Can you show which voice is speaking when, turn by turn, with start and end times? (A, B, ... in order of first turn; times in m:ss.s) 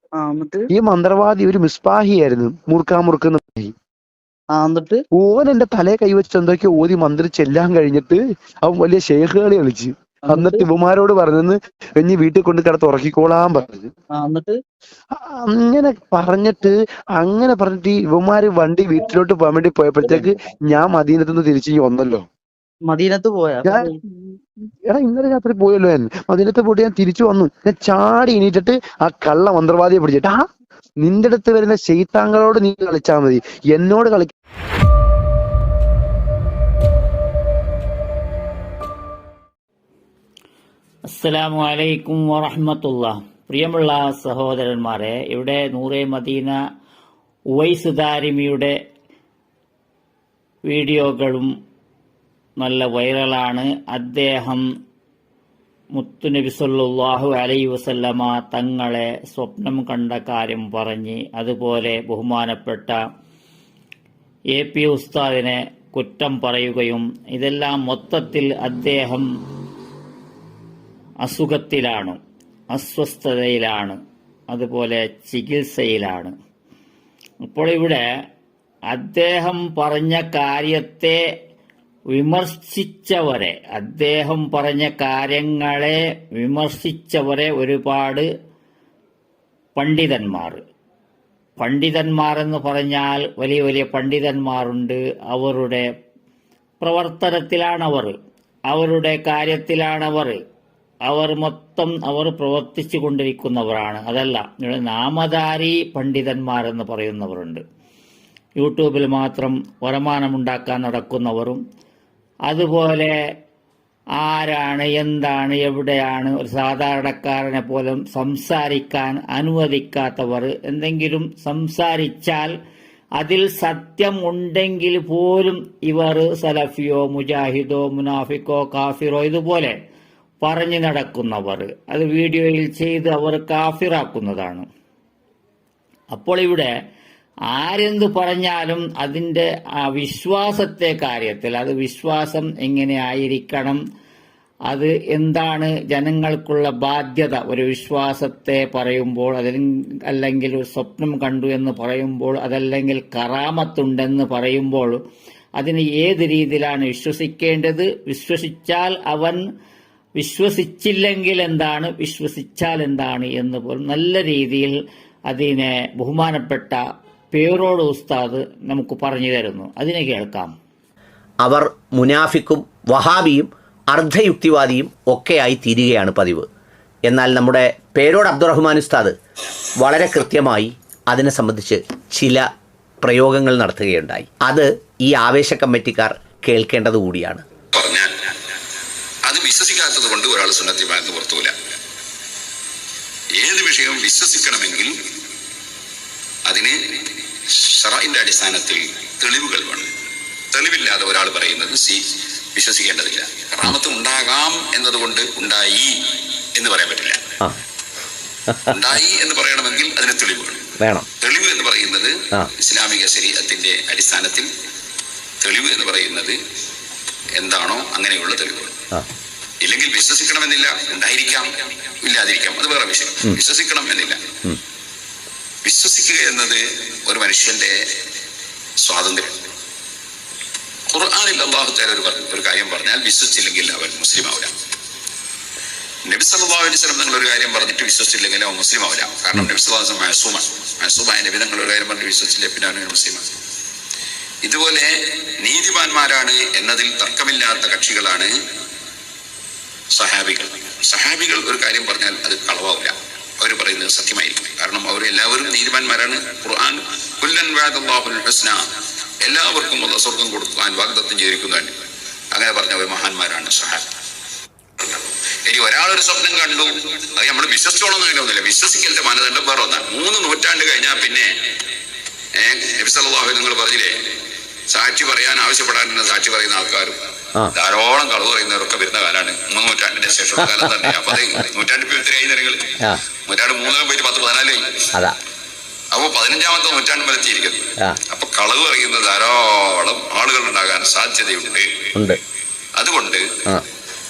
0:00.2-0:00.6 A
0:00.7-0:03.7 B
0:04.5-0:05.0 A
0:05.2-0:13.9 B
0:14.2-0:14.5 A
0:15.3-0:22.2 B
0:22.9-0:23.8 A
0:23.6-0:23.9 B
0:24.8-0:30.4 B
0:31.0-0:34.3 B
0:41.2-0:46.6 C
0:47.6-0:48.8 C
0:50.7-0:51.5 C
0:52.6-0:54.6 C
0:56.0-1:03.0 C
1:04.6-1:09.3 C
1:11.2-1:12.2 C
1:12.7-1:14.0 C
1:14.5-1:16.3 C
1:17.5-1:18.0 C
1:18.9-1:21.2 C
1:22.1-1:28.3 C
1:29.8-1:30.6 C
1:31.6-1:35.9 C
1:36.8-1:38.2 C
1:38.7-1:40.4 C
1:41.1-1:47.6 C
1:48.6-1:51.6 C
1:52.5-1:53.2 C
1:54.2-2:02.5 C
2:03.2-2:09.8 C
2:10.4-2:14.7 C
2:16.1-2:16.7 C
2:17.5-2:23.8 C
2:24.7-2:35.0 C
2:35.6-2:39.4 C
2:40.2-2:44.7 C
2:45.3-2:46.8 C
2:47.3-2:50.5 C
2:51.4-2:56.5 D
2:57.1-2:59.2 D
2:59.8-3:02.5 D
3:03.0-3:07.5 D
3:07.8-3:08.1 E
3:09.3-3:11.5 E
3:13.4-3:14.9 E
3:16.5-3:16.8 E
3:17.5-3:19.9 E
3:20.5-3:22.0 E
3:22.6-3:27.2 E
3:28.5-3:28.8 D
3:28.7-3:30.6 E
3:30.8-3:31.1 D
3:31.2-3:34.5 E
3:35.4-3:36.4 E
3:37.4-3:38.8 E
3:39.6-3:41.5 E
3:42.0-3:44.2 E
3:45.6-3:47.8 E
3:48.8-3:49.4 E
3:50.9-3:54.5 E
3:56.1-4:03.3 E
4:04.4-4:08.3 E
4:10.0-4:18.6 E
4:19.2-4:21.7 E
4:22.3-4:23.8 E
4:24.8-4:31.3 E
4:32.4-4:33.9 E
4:34.7-4:37.0 E
4:37.6-4:44.9 E
4:40.4-4:41.2 D
4:45.9-4:51.7 E
4:52.8-4:53.3 E